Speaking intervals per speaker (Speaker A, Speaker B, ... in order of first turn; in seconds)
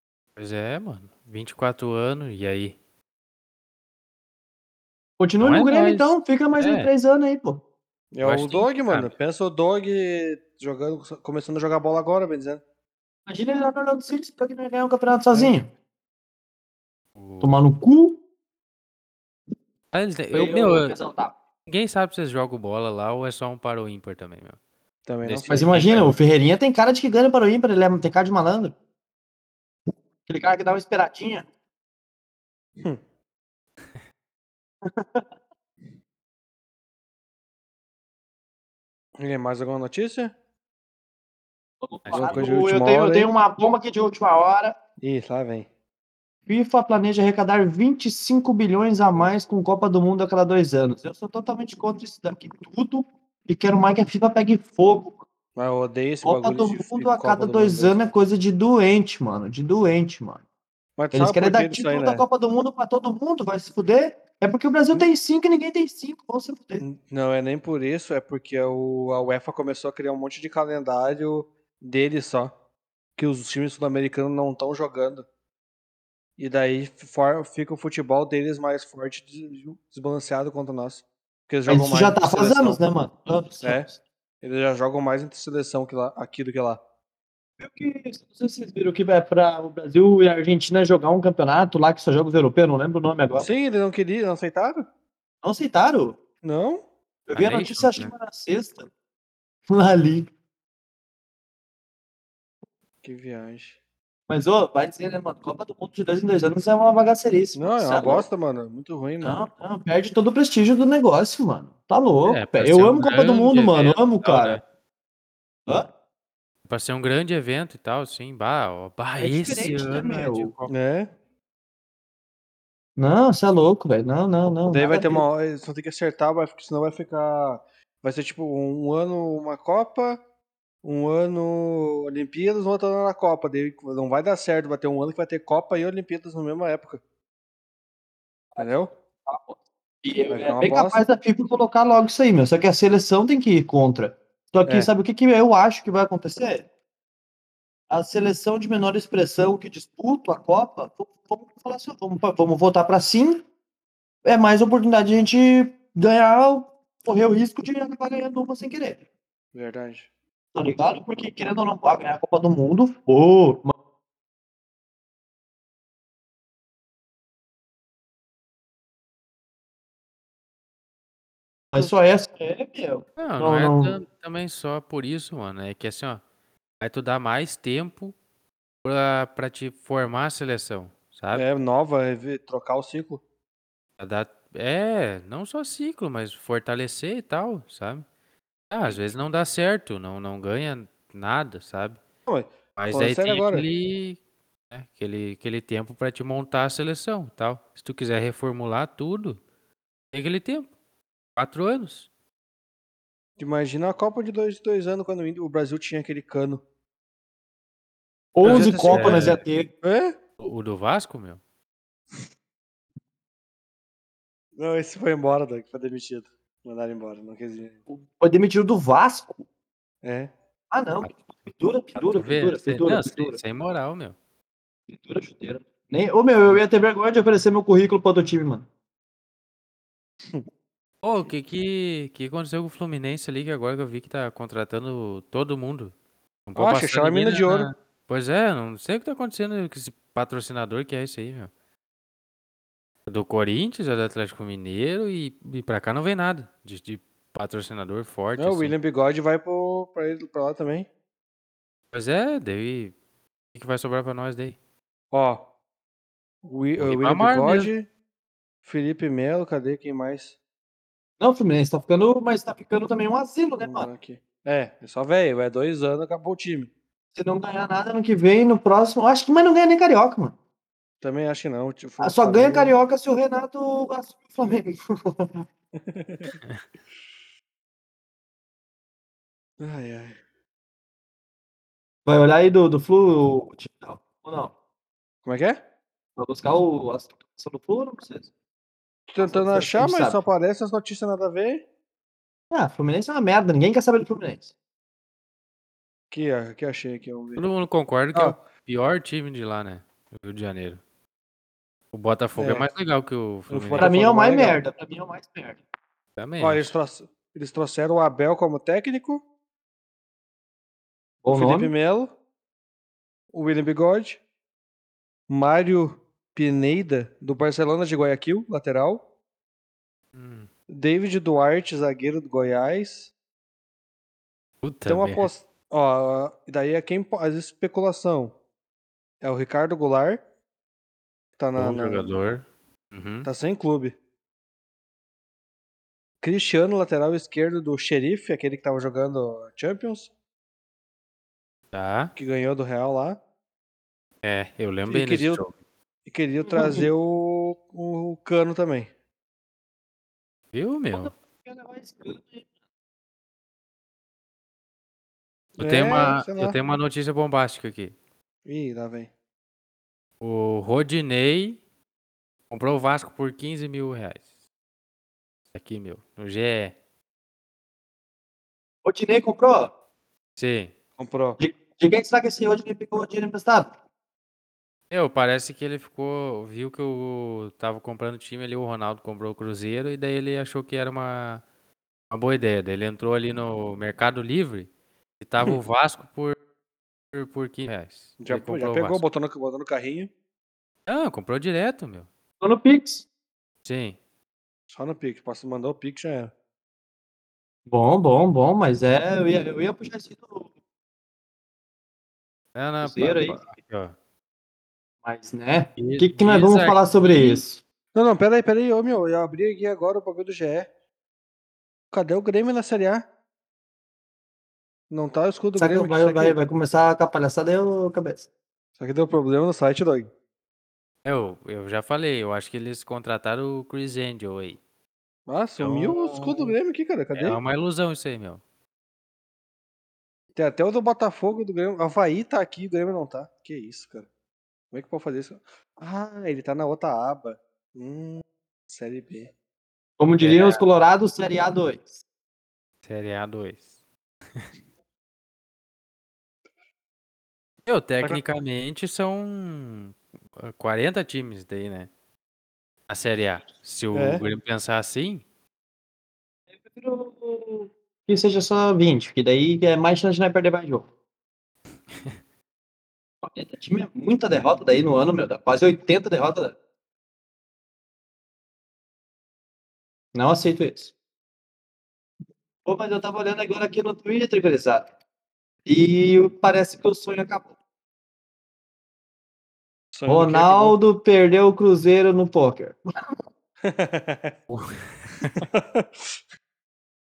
Speaker A: 0.4-2.8, 5.4-6.9, 8.2-9.1, 17.1-17.6, 19.9-20.9, 21.7-24.6, 25.2-26.2, 42.0-42.4, 97.3-98.1, 112.2-114.6, 116.7-120.7, 173.2-176.2, 176.8-178.1, 178.8-181.4, 184.0-188.1, 188.7-192.0, 192.8-194.2, 194.7-199.4, 200.1-200.7, 201.4-202.1, 208.4-209.4, 210.4-211.4, 221.9-224.2, 231.0-235.9, 236.5-241.5, 243.1-248.7, 251.9-252.9, 253.5-254.6, 256.8-257.7, 297.4-300.8, 301.9-303.9, 306.2-306.7, 320.1-320.5, 324.6-325.3, 331.6-333.3, 341.7-342.1, 344.2-345.5, 350.5-351.1, 355.6-357.9, 360.2-361.6, 362.5-364.2, 365.5-366.7, 370.4-370.7, 374.9-381.4, 382.1-386.4, 387.1-389.0, 390.9-392.1, 393.6-394.0, 402.5-403.9, 405.8-407.4, 421.0-424.6, 427.1-428.4, 440.2-440.6, 442.8-443.6, 447.6-451.9, 452.9-455.2, 484.5-485.4
Speaker B: 5.2-7.6, 13.3-15.7, 17.4-18.2, 20.3-21.3, 25.4-28.7, 30.2-31.4, 34.9-35.2, 41.8-44.8, 46.5-55.2, 56.2-60.4, 61.1-66.8, 81.7-84.0, 87.6-93.5, 95.4-96.2, 97.3-98.9, 99.7-100.3, 104.3-108.2, 109.2-114.6, 119.2-120.5, 123.0-125.2, 139.2-146.7, 147.9-153.4, 154.2-159.0, 160.5-163.7, 171.7-174.0, 208.3-209.7, 217.9-219.3, 220.7-223.4, 224.9-228.7, 261.2-263.9, 267.1-270.3, 272.0-275.4, 282.1-284.5, 286.2-288.3, 289.2-290.2, 292.5-294.5, 303.8-305.6, 311.2-311.7, 346.5-346.9, 350.9-352.4, 368.8-369.7, 371.4-373.7, 392.4-393.1, 397.7-400.5, 402.8-403.4, 405.0-407.6, 415.6-418.3, 425.6-426.5, 440.0-441.9, 456.6-460.9, 463.2-466.6, 470.1-470.9, 472.6-474.9, 475.6-477.5, 480.1-482.8
Speaker C: 8.1-12.6, 25.1-25.6, 39.2-40.3, 42.1-43.3, 45.0-45.7, 55.5-58.1, 61.0-62.2, 66.8-72.5, 73.2-75.2, 76.4-82.8, 83.6-83.9, 84.4-86.8, 93.4-94.8, 96.4-96.8, 103.0-103.8, 107.5-109.4, 120.7-121.1, 124.7-130.2, 130.8-137.0, 138.6-138.9, 140.3-141.0, 159.5-160.1, 181.3-183.2, 192.2-193.7, 203.4-206.6, 208.4-210.1, 214.6-217.8, 220.0-220.3, 236.6-237.7, 248.3-250.9, 255.1-255.4, 256.4-257.9, 258.6-260.3, 263.6-266.7, 271.0-272.8, 275.7-276.3, 279.6-280.2, 285.2-285.6, 289.1-291.6, 296.1-297.4, 302.4-302.7, 303.5-304.6, 306.4-309.2, 311.3-312.1, 313.3-314.2, 315.3-319.0, 320.7-323.1, 324.9-328.3, 329.2-330.2, 331.4-332.1, 333.2-333.9, 336.2-340.1, 342.1-343.2, 344.9-345.4, 346.1-348.9, 355.6-356.6, 358.4-359.1, 371.0-371.4, 388.2-390.1, 394.7-396.3, 407.9-410.7, 411.9-413.0, 414.9-416.4, 418.8-420.1, 425.3-427.4, 430.4-434.1, 434.7-439.3, 453.9-454.2, 479.9-480.8, 483.6-484.3, 485.4-486.1